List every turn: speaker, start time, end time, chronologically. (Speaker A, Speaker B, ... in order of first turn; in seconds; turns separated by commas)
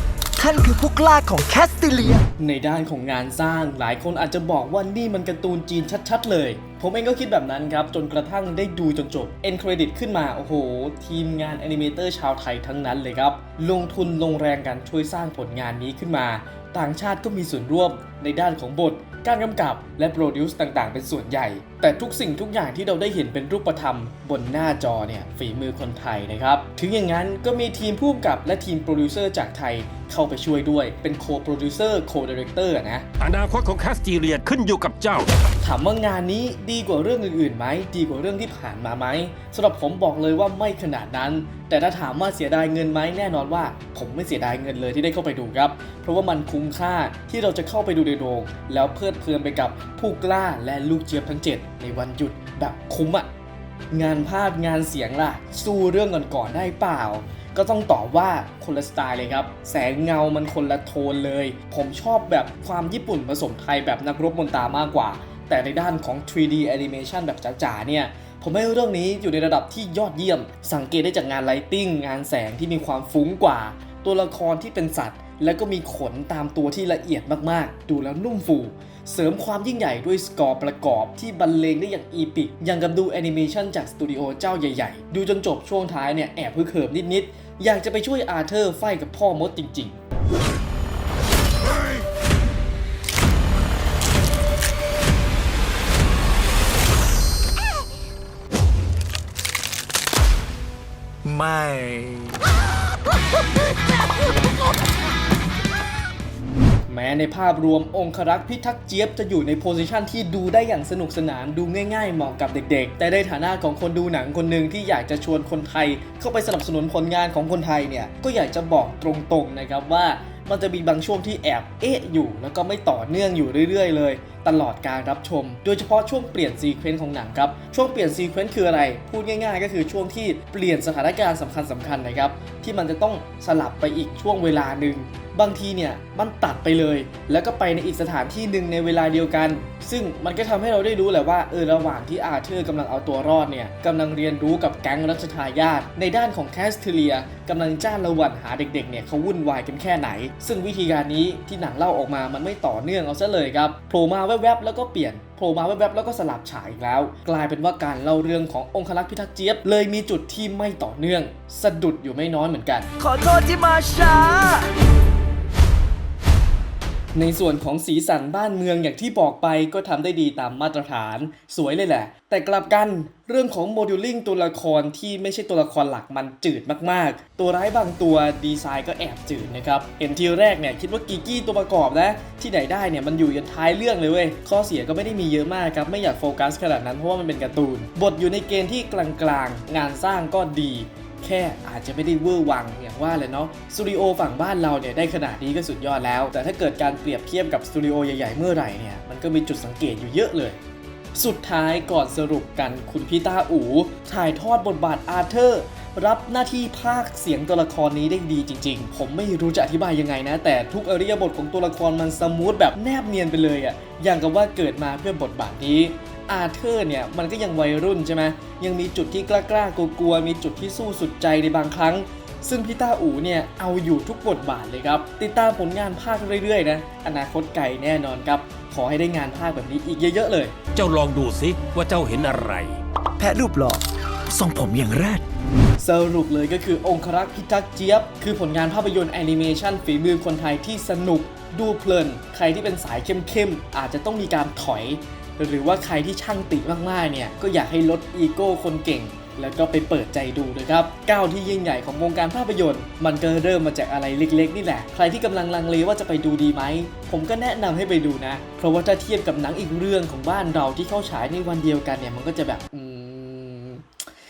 Speaker A: 0.4-2.2, Speaker B: 2.4-33.0, Speaker C: 33.2-35.3, Speaker B: 35.6-53.3, Speaker B: 53.9-90.0, Speaker A: 101.2-102.4, Speaker B: 106.9-162.9, Speaker A: 163.0-164.7, Speaker B: 167.1-200.6, Speaker B: 201.1-230.5, Speaker C: 230.8-232.8, Speaker A: 233.2-235.2, Speaker B: 235.8-263.8